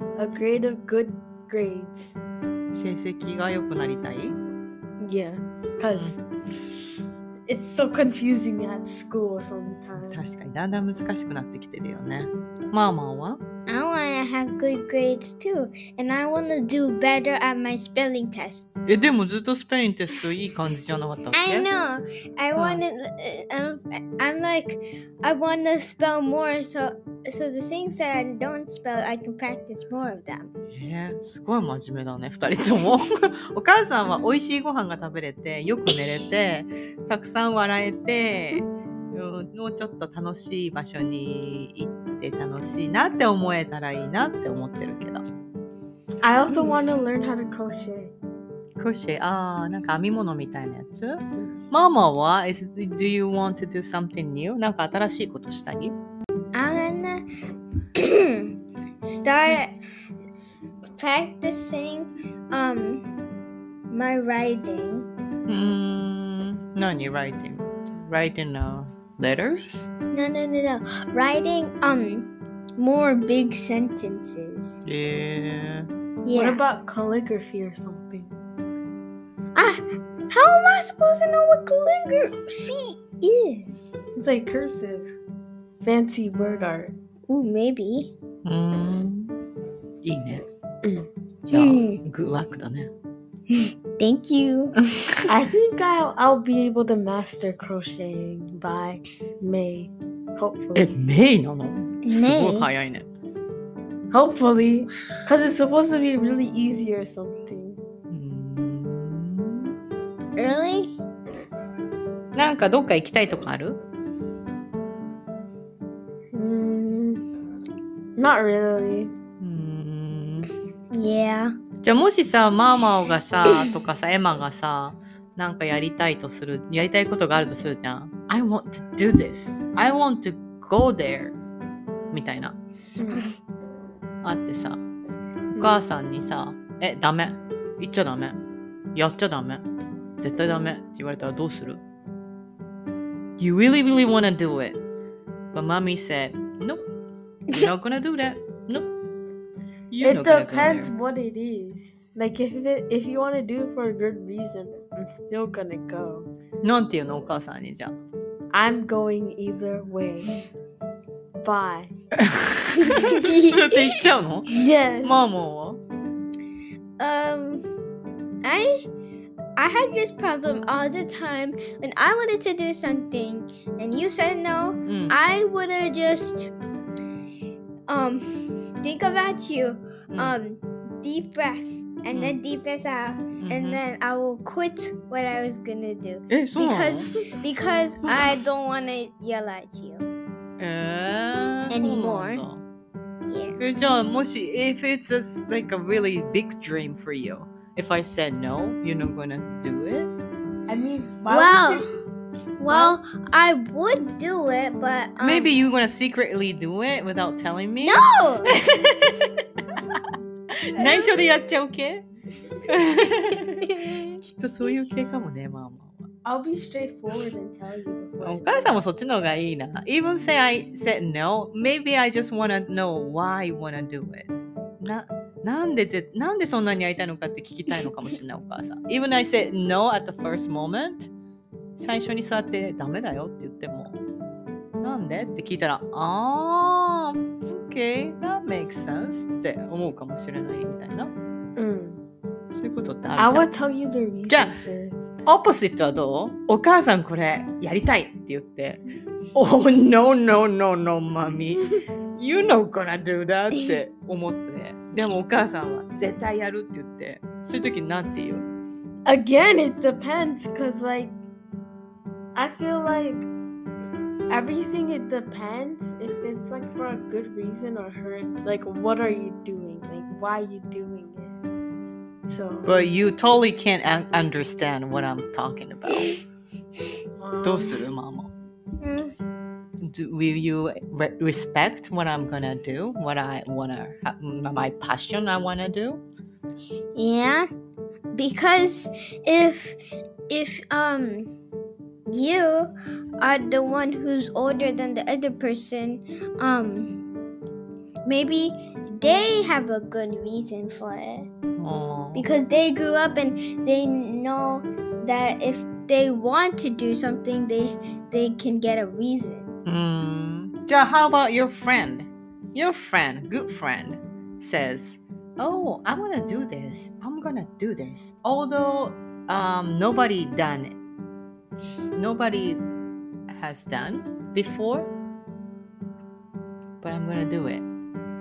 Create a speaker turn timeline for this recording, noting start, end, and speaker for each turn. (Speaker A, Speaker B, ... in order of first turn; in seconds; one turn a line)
Speaker A: 0.2-2.2
Speaker B: 2.7-4.4
Speaker A: 5.0-6.2
Speaker A: 7.5-10.2
Speaker B: 10.0-13.4
Speaker C: 13.7-18.8
Speaker B: 18.9-21.7
Speaker C: 21.4-30.5
Speaker B: 22.6-22.8
Speaker B: 30.7-45.2
Speaker A: 46.2-48.1
Speaker C: 46.5-46.8
Speaker B: 48.8-56.0
Speaker C: 56.5-57.3
Speaker C: 58.0-59.8
Speaker C: 61.0-63.0
Speaker C: 63.9-65.1
Speaker B: 65.5-69.9
Speaker C: 70.1-74.8
Speaker B: 74.8-75.9
Speaker C: 76.2-76.6
Speaker A: 76.3-78.3
Speaker C: 79.5-83.8
Speaker A: 84.2-85.1
Speaker A: 85.8-86.9
Speaker C: 87.3-88.1
Speaker B: 88.5-89.3
Speaker B: 90.0-90.4
Speaker A: 90.8-91.1
Speaker B: 91.5-92.9
Speaker C: 91.5-92.0
Speaker C: 93.5-94.8
Speaker A: 95.3-101.0
Speaker B: 100.8-103.1
Speaker C: 102.1-102.7
Speaker A: 104.1-107.8
Speaker B: 108.1-109.7
Speaker C: 110.4-110.9
Speaker B: 112.3-113.8
Speaker A: 116.3-117.2
Speaker A: 118.2-119.1
Speaker B: 119.4-120.5
Speaker C: 120.9-121.6
Speaker B: 121.8-131.4
Speaker B: 132.1-132.6
Speaker A: 133.0-133.2
Speaker B: 134.2-134.8
Speaker B: 135.6-138.4
Speaker B: 138.9-139.7
Speaker B: 140.2-141.8
Speaker B: 143.4-144.8
Speaker B: 145.5-146.8
Speaker B: 147.5-148.9
Speaker B: 149.9-150.9
Speaker A: 150.0-156.3
Speaker B: 156.6-158.0
Speaker A: 158.5-160.5
Speaker A: 161.4-161.9
Speaker B: 162.2-165.8
Speaker A: 162.8-165.2
Speaker C: 167.0-167.7
Speaker C: 168.4-168.9
Speaker C: 169.6-176.5
Speaker B: 174.9-175.2
Speaker C: 177.9-190.1
Speaker B: 180.1-180.4
Speaker B: 182.1-182.4
Speaker B: 183.4-183.8
Speaker B: 186.3-187.2
Speaker B: 188.1-188.4
Speaker B: 190.6-192.6
Speaker C: 191.7-192.5
Speaker C: 193.3-193.6
Speaker B: 193.6-200.1
Speaker A: 200.7-201.9
Speaker C: 201.3-201.9
Speaker C: 202.6-205.5
Speaker B: 202.7-203.0
Speaker B: 205.2-209.4
Speaker C: 207.8-208.5
Speaker B: 210.6-212.0
Speaker C: 210.8-211.2
Speaker B: 212.7-213.6
Speaker C: 213.3-214.2
Speaker B: 214.2-216.1
Speaker A: 216.2-218.7
Speaker B: 218.2-231.1
Speaker B: 231.8-234.0
Speaker B: 234.8-241.1
Speaker A: 241.6-242.0
Speaker B: 242.5-243.5
Speaker A: 243.2-245.0
Speaker B: 244.3-244.5
Speaker B: 245.2-248.8
Speaker B: 249.3-251.7
Speaker B: 252.2-258.5
Speaker A: 259.1-261.2
Speaker A: 262.4-263.3
Speaker A: 264.3-271.4
Speaker A: 272.3-272.9
Speaker B: 272.3-276.2
Speaker A: 277.2-277.9
Speaker B: 277.4-278.3
Speaker C: 278.8-279.1
Speaker B: 279.8-286.0
Speaker C: 286.9-287.5
Speaker C: 288.1-289.8
Speaker C: 290.3-291.3
Speaker C: 292.1-297.0
Speaker C: 298.1-301.3
Speaker B: 301.6-302.2
Speaker C: 302.1-309.5
Speaker B: 309.7-320.8
Speaker B: 322.0-322.6
Speaker B: 323.3-324.9
Speaker B: 326.8-327.6